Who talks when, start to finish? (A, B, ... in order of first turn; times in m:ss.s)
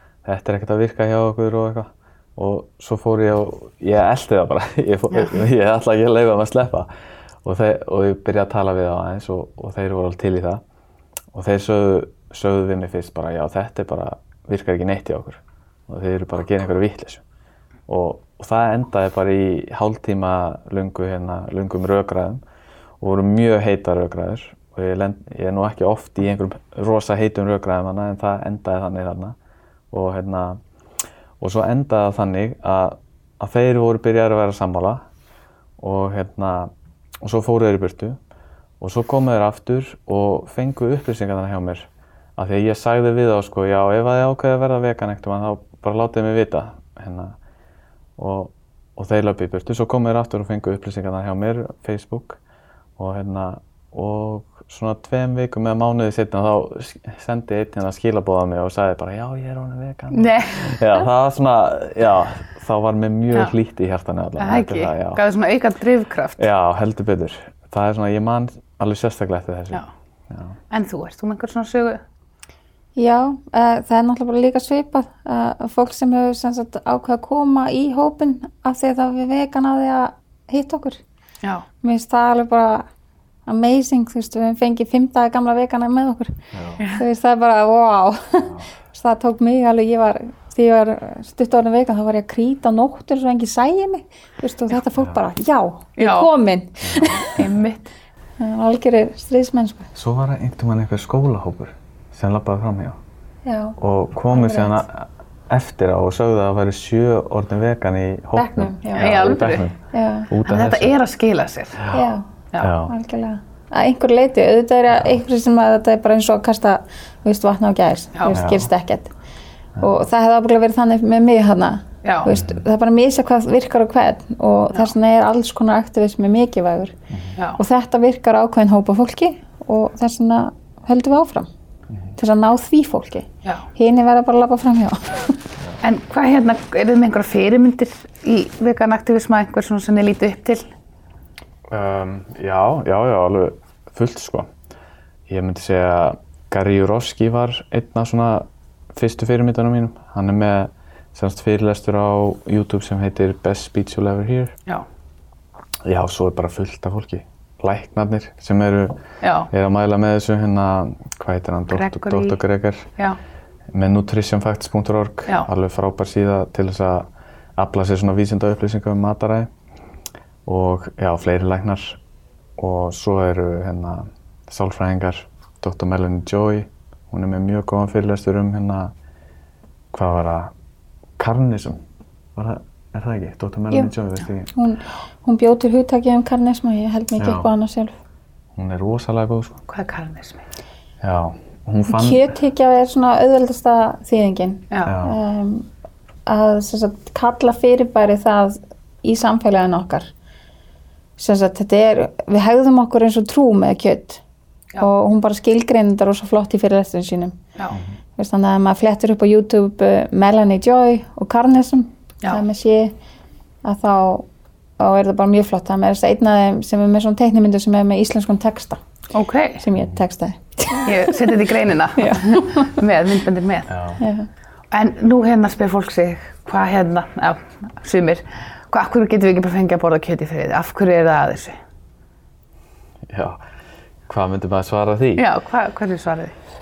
0:00.2-0:06.9 A
0:07.4-0:10.6 A
0:11.3-0:17.2 A
0:17.9-0:22.4 A
0:23.0-0:29.4 A
0:29.9-0:30.6 A
0:31.4-0:35.0 A
0:35.8-0:38.2 A
0:38.8-0:47.4 A
0:48.2-0:52.4 A
0:53.0-1:05.2 A
1:00.1-1:00.8 B
1:04.4-1:06.5 B
1:06.4-1:10.6 A
1:10.7-1:12.0 B
1:13.0-1:21.0 C
1:21.8-1:22.8 C
1:23.4-1:37.4 C
1:26.5-1:26.8 A
1:36.0-1:36.3 B
1:36.8-1:37.2 A
1:37.3-1:37.9 B
1:38.4-1:39.9 C
1:39.9-1:43.0 A
1:43.4-1:43.8 C
1:43.8-1:49.8 A
1:44.3-1:44.8 C
1:48.3-1:49.2 C
1:48.9-1:49.7 B
1:49.9-1:50.3 C
1:50.3-1:50.9 A
1:50.4-1:51.9 B
1:51.9-1:52.3 C
1:52.6-1:52.9 A
1:52.8-1:59.1 C
1:58.3-1:58.7 A
1:59.8-2:07.0 C
2:02.0-2:02.3 B
2:02.3-2:02.6 A
2:07.1-2:07.4 A
2:07.5-2:11.5 C
2:12.2-2:15.4 C
2:15.8-2:20.6 B
2:21.7-2:24.5 A
2:25.3-2:34.5 A
2:35.8-2:42.9 A
2:39.2-2:39.5 B
2:41.7-2:42.4 B
2:43.7-2:49.5 A
2:50.4-2:52.0 A
2:52.6-2:58.9 A
2:59.9-3:00.5 A
3:01.2-3:01.8 A
3:02.3-3:04.5 A
3:04.5-3:07.9 C
3:07.2-3:07.5 A
3:08.5-3:09.6 A
3:09.7-3:10.4 B
3:11.0-3:12.3 A
3:11.9-3:15.7 C
3:14.7-3:15.0 B
3:14.8-3:15.2 A
3:16.3-3:20.1 C
3:21.2-3:24.2 C
3:24.8-3:27.4 C
3:28.2-3:32.9 C
3:33.6-3:34.3 C
3:34.8-3:38.8 C
3:39.1-3:39.6 B
3:39.6-3:41.4 C
3:40.8-3:43.7 B
3:42.0-3:42.8 C
3:43.7-3:44.0 A
3:44.0-3:44.3 C
3:44.7-3:51.6 B
3:53.1-3:53.4 A
3:54.1-3:55.3 A
3:55.2-3:56.3 B